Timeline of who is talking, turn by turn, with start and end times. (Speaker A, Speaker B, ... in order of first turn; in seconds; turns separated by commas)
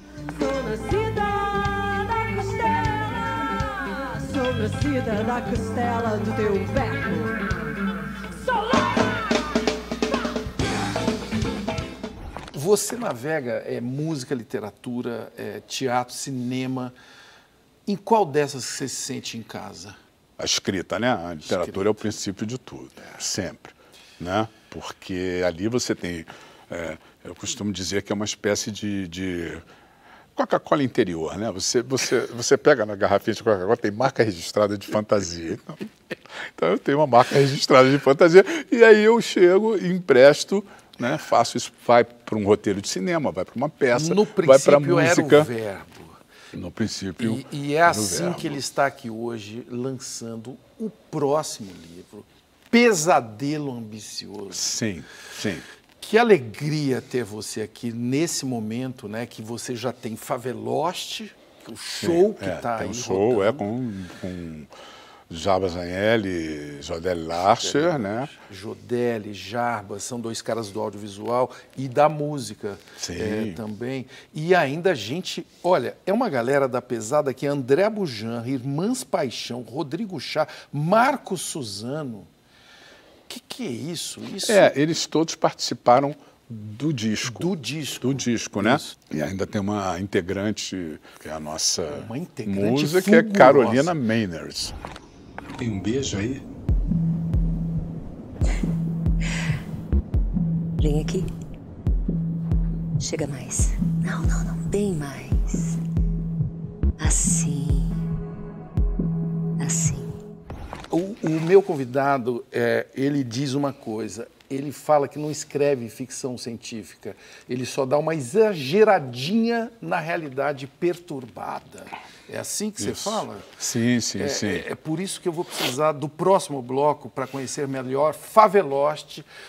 Speaker A: 0.3-7.8, Speaker A: 8.3-9.3, Speaker B: 12.5-17.0, Speaker B: 17.9-20.0, Speaker C: 20.4-29.6, Speaker B: 21.5-21.9, Speaker C: 30.4-35.9, Speaker C: 36.5-45.5, Speaker B: 43.9-46.2, Speaker C: 46.5-48.6, Speaker B: 47.2-54.7, Speaker C: 54.5-55.6, Speaker B: 56.0-63.6, Speaker C: 62.0-64.7, Speaker C: 65.3-68.3, Speaker B: 67.4-82.3, Speaker C: 73.0-73.6, Speaker B: 83.3-84.7, Speaker C: 84.5-87.5, Speaker B: 87.2-89.0, Speaker C: 88.0-94.8, Speaker B: 91.9-93.9, Speaker C: 95.6-96.4, Speaker D: 100.8-101.3, Speaker D: 103.0-105.8, Speaker D: 107.0-108.0, Speaker D: 109.6-110.2, Speaker B: 110.9-123.5, Speaker C: 122.8-124.7, Speaker B: 124.2-129.3